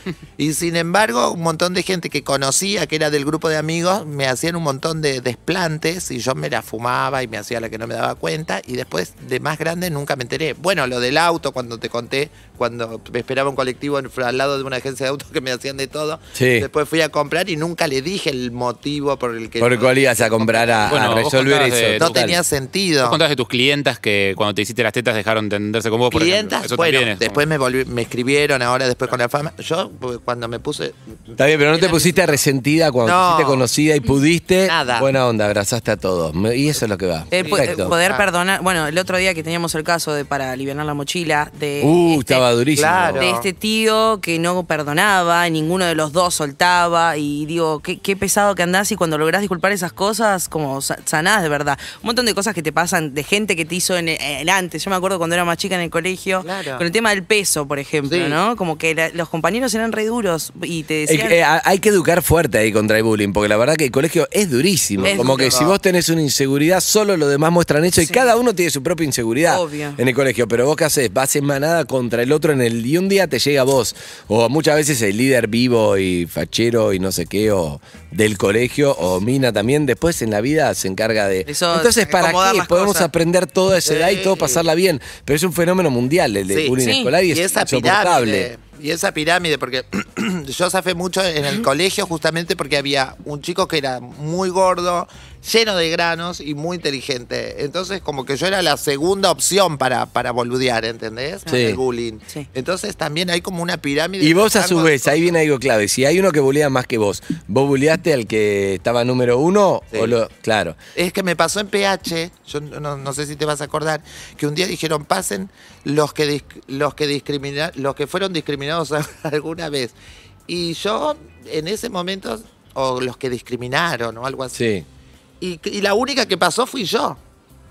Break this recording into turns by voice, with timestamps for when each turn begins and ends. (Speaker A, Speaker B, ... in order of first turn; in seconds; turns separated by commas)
Speaker A: 0.4-21.0, Speaker B: 16.4-16.7, Speaker B: 19.6-22.4, Speaker C: 20.9-22.3, Speaker A: 22.0-23.2, Speaker C: 23.0-27.4, Speaker A: 26.1-32.4, Speaker B: 31.4-38.0, Speaker A: 33.0-33.6, Speaker A: 34.6-35.1, Speaker D: 37.3-42.5, Speaker A: 37.3-38.3, Speaker B: 41.8-43.3, Speaker A: 42.7-43.5, Speaker D: 43.2-61.4, Speaker A: 56.4-56.9, Speaker A: 58.1-58.4, Speaker B: 61.1-88.5, Speaker A: 65.0-65.8, Speaker D: 65.0-65.6, Speaker D: 68.0-68.3, Speaker D: 69.5-70.0, Speaker D: 81.5-83.1, Speaker A: 83.8-84.6, Speaker A: 86.5-105.3, Speaker D: 86.8-87.1, Speaker B: 101.5-101.8, Speaker B: 104.2-110.8, Speaker A: 111.0-120.0, Speaker A: 120.5-124.6, Speaker B: 124.5-124.9, Speaker A: 125.4-127.2